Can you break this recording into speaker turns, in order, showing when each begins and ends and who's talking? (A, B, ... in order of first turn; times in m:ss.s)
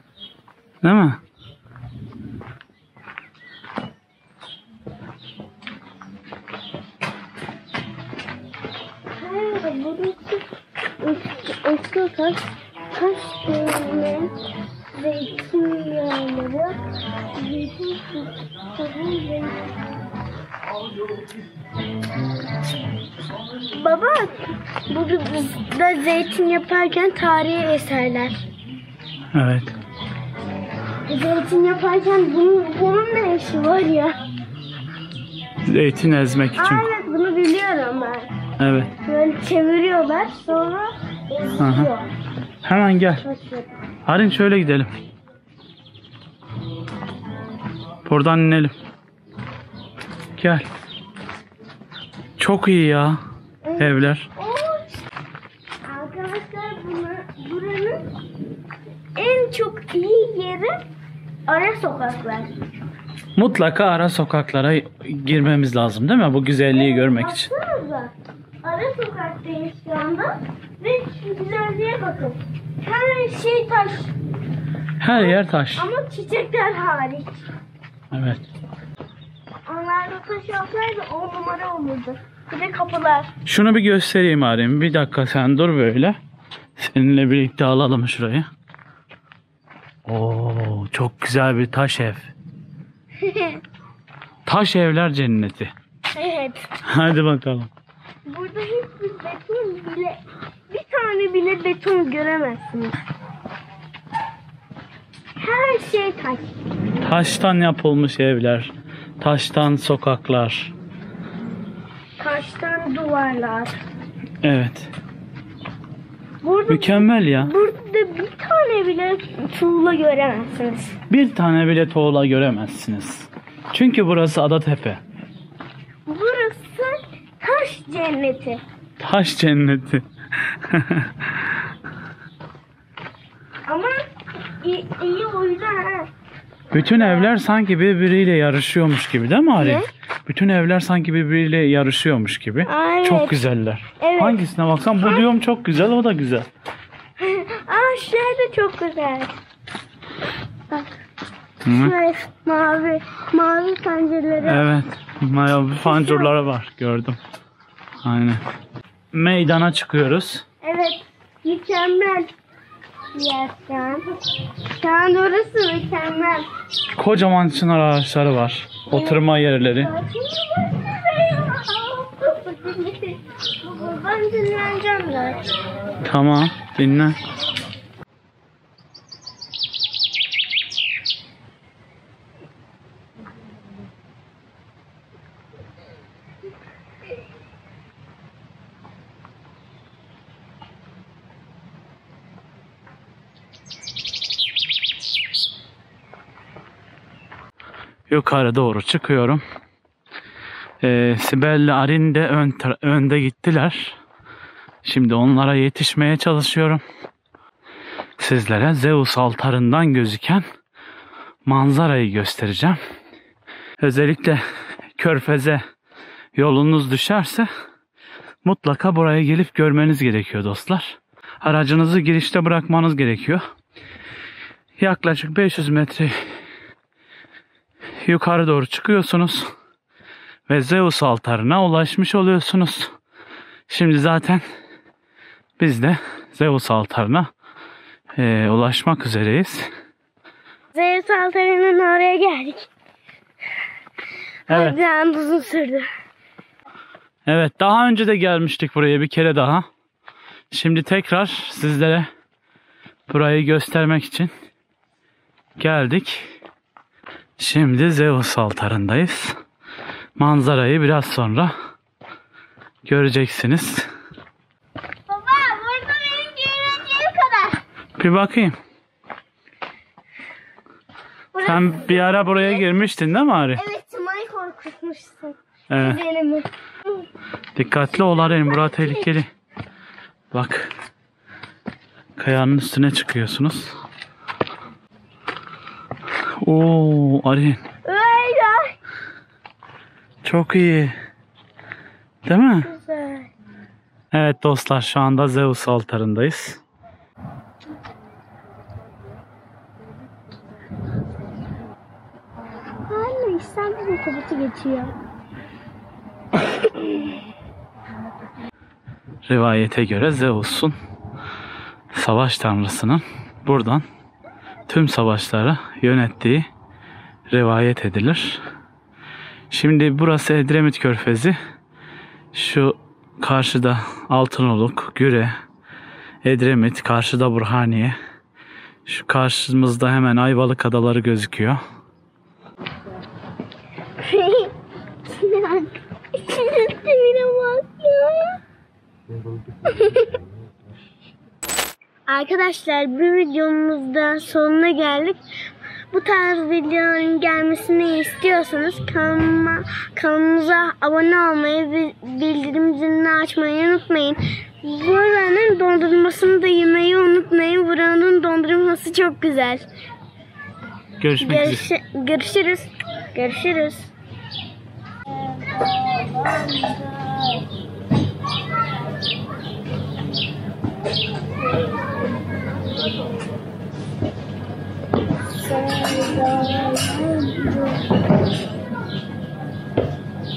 0:00.8-0:01.2 A
0:09.2-0:10.5 B
0:11.0-0:14.4 B
0:14.9-0:16.8 B
0:17.3-0:19.7 B
0:23.7-0:28.4 B
0:29.3-0:29.7 A
0:31.1-0:34.2 B
0:35.6-0:36.9 A
0:36.6-0:38.3 B
0:38.6-0:38.9 A
0:39.0-0:42.1 B
0:41.6-0:41.9 A
0:42.6-0:43.2 A
0:43.2-0:43.7 B
0:44.1-0:44.9 A
0:48.0-0:48.7 A
0:50.4-0:50.7 A
0:52.4-0:53.2 A
0:53.6-0:55.0 B
0:53.8-0:54.3 A
0:55.9-0:58.1 B
0:59.2-1:00.8 B
1:01.5-1:02.5 B
1:03.4-1:07.5 A
1:06.7-1:14.2 B
1:15.0-1:15.9 A
1:15.1-1:17.4 B
1:18.1-1:18.4 A
1:19.7-1:23.3 B
1:23.4-1:26.2 A
1:26.8-1:28.5 A
1:30.1-1:32.3 A
1:33.2-1:33.6 B
1:34.5-1:35.7 A
1:36.1-1:36.7 B
1:36.8-1:37.7 A
1:38.3-1:43.0 B
1:45.4-1:46.5 B
1:47.0-1:50.7 A
1:52.2-1:53.8 B
1:54.4-1:54.9 A
1:56.4-2:01.0 B
1:56.7-1:57.5 A
2:01.1-2:05.0 A
2:06.1-2:08.6 B
2:09.0-2:11.4 A
2:13.7-2:14.0 B
2:14.6-2:16.1 B
2:16.7-2:26.5 A
2:16.8-2:17.4 B
2:19.6-2:19.9 B
2:22.7-2:23.4 B
2:24.0-2:24.4 B
2:27.2-2:29.4 B
2:30.7-2:31.0 B
2:31.6-2:32.0 A
2:31.7-2:34.6 B
2:34.4-2:37.2 A
2:35.9-2:36.3 B
2:38.0-2:38.4 A
2:39.1-2:40.4 A
2:40.6-2:42.3 B
2:43.2-2:44.1 B
2:44.6-2:46.5 B
2:47.0-2:49.9 A
2:48.9-2:49.2 B
2:49.7-2:55.5 B
2:56.0-2:57.2 A
3:18.1-3:19.4 A
3:20.8-3:24.0 A
3:24.8-3:26.8 A
3:28.2-3:30.5 A
3:31.5-3:32.8 A
3:33.8-3:34.4 A
3:35.0-3:35.6 A
3:36.4-3:37.5 A
3:38.4-3:43.4 A
3:44.8-3:46.2 A
3:48.0-3:49.5 A
3:50.5-3:52.9 A
3:53.7-3:54.4 A
3:55.6-3:57.3 A
3:58.2-3:59.7 A
4:00.7-4:02.7 B
4:04.5-4:04.8 A
4:04.5-4:05.9 B
4:07.3-4:09.7 A
4:10.5-4:12.1 A
4:13.1-4:14.3 A
4:15.6-4:16.3 A
4:17.4-4:19.4 A
4:20.2-4:21.5 A
4:22.8-4:23.9 A
4:25.1-4:27.6 B
4:28.0-4:28.6 A
4:31.3-4:32.6 B
4:31.4-4:33.6 A
4:33.6-4:36.5 B
4:35.7-4:36.0 A
4:37.6-4:39.3 A
4:38.5-4:39.0 B
4:40.3-4:40.7 A
4:42.2-4:43.8 A
4:46.4-4:47.6 A
4:47.8-4:48.8 B
4:50.2-4:51.0 A
4:52.3-4:52.7 A
4:52.6-4:53.3 B
4:54.1-4:56.6 A
5:02.9-5:05.0 B
5:09.3-5:10.8 A
5:11.9-5:13.8 A
5:14.7-5:16.5 A
5:17.3-5:18.4 A
5:19.5-5:21.4 A
5:22.3-5:25.3 A
5:26.2-5:28.0 A
5:28.9-5:31.6 A
5:34.0-5:34.5 B
5:35.1-5:38.4 B
5:39.7-5:40.2 B
5:42.1-5:45.2 B
5:45.9-5:59.7 B
6:01.0-6:01.6 A
6:01.2-6:03.9 B
6:05.2-6:07.4 B
6:15.4-6:18.0 B